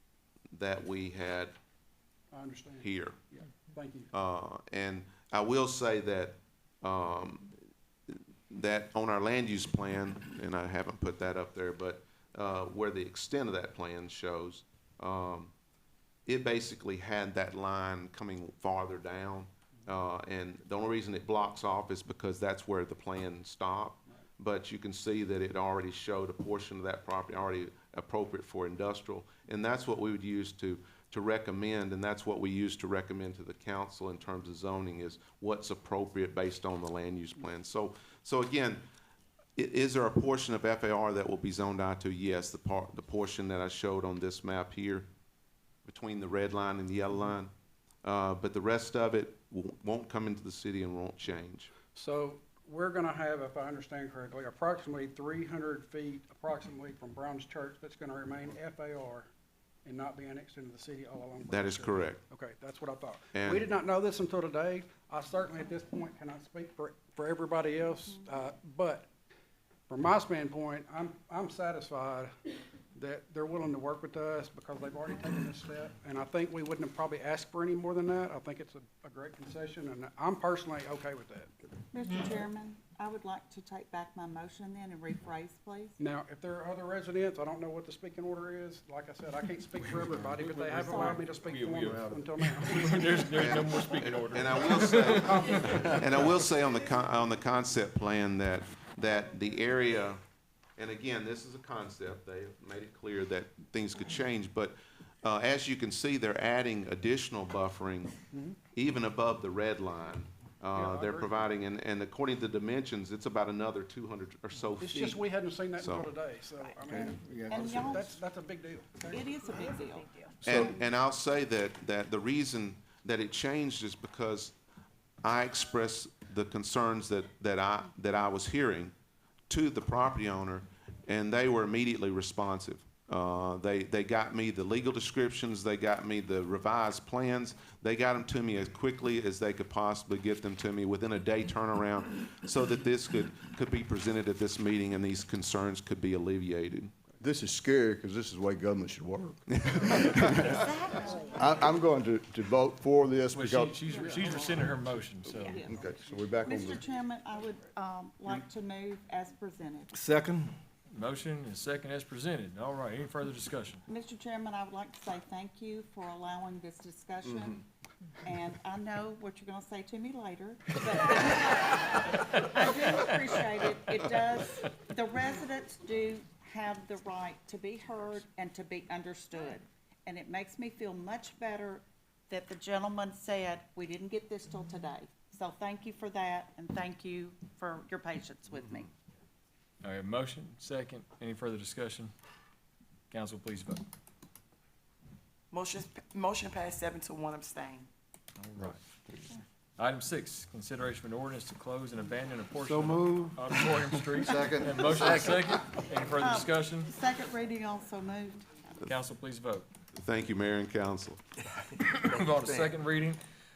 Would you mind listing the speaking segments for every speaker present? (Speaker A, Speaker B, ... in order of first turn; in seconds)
Speaker A: 0.5-1.5, 2.8-3.2, 4.1-7.5, 8.1-15.5, 16.2-38.8, 39.5-45.1, 45.8-47.5, 48.0-51.7, 61.5-62.2, 63.3-63.6, 93.3-100.2, 100.8-108.2, 108.7-115.2, 115.8-116.1, 120.4-124.5, 125.2-128.9, 129.5-146.9, 149.5-150.5, 209.9-211.2
Speaker B: 2.3-4.1, 51.9-59.3, 59.8-69.1, 69.9-72.3, 72.9-81.5, 86.0-93.5, 95.3-95.6, 110.7-111.4, 114.8-119.3
Speaker C: 81.9-86.0, 90.7-91.2, 117.5-118.1, 119.1-120.3, 150.4-151.6, 153.9-154.6, 155.4-155.9, 156.4-159.9, 163.9-167.6, 168.2-188.9, 206.1-208.5
Speaker D: 91.4-96.0, 153.3-155.6, 160.9-163.8, 189.8-192.1, 193.1-193.8, 198.4-198.8, 199.8-206.9, 208.8-209.7, 211.8-213.2
Speaker E: 91.8-92.2, 116.9-118.0, 120.4-120.7, 147.2-154.0, 155.6-156.8, 159.9-160.5, 202.6-203.5, 204.1-205.5
Speaker F: 195.5-197.9